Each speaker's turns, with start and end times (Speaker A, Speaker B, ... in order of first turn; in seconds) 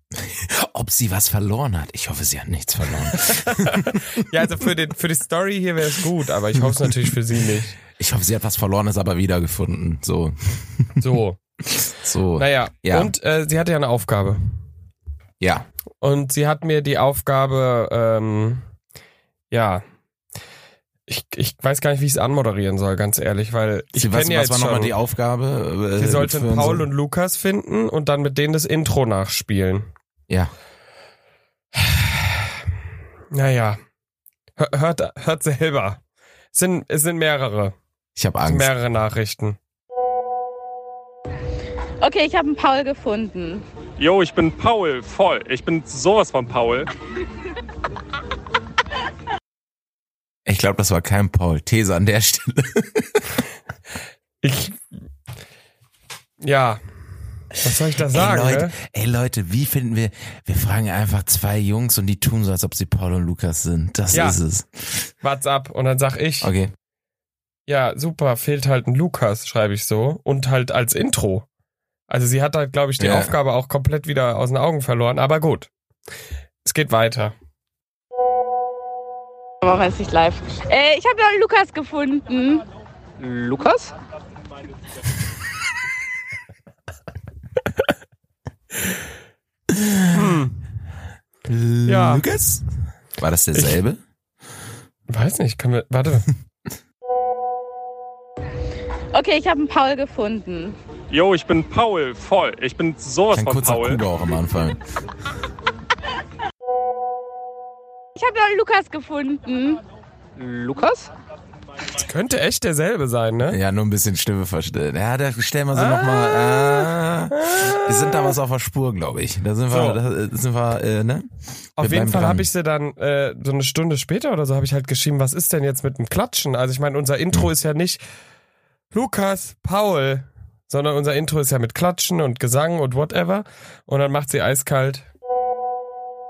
Speaker A: 0.1-4.3, 6.5-7.1, 8.0-11.1, 11.6-13.1, 15.4-15.7, 23.9-26.9, 38.2-38.7, 50.5-53.4, 58.1-65.1, 66.4-66.7, 73.0-73.3, 89.7-90.4, 91.5-94.0, 103.3-104.8, 113.5-121.3, 121.8-122.5
Speaker B: 3.1-7.8, 11.0-11.4, 12.3-14.6, 16.0-18.6, 19.5-19.8, 21.1-24.9, 26.0-29.9, 31.8-32.2, 33.3-33.8, 34.6-36.0, 36.5-37.8, 38.5-39.6, 54.4-54.8, 56.4-56.8, 57.6-58.8, 64.1-64.4, 65.2-66.5, 67.7-71.5, 72.1-75.7, 76.6-77.3, 90.1-90.6, 91.9-92.3, 93.5-93.8, 95.1-96.3, 112.0-113.6, 115.8-118.3, 119.7-120.0, 121.8-128.0, 128.9-135.1
Speaker C: 42.0-43.6, 79.6-82.7, 83.2-83.9, 99.1-100.8, 108.2-109.8, 110.4-111.1
Speaker D: 44.0-46.9, 101.1-104.0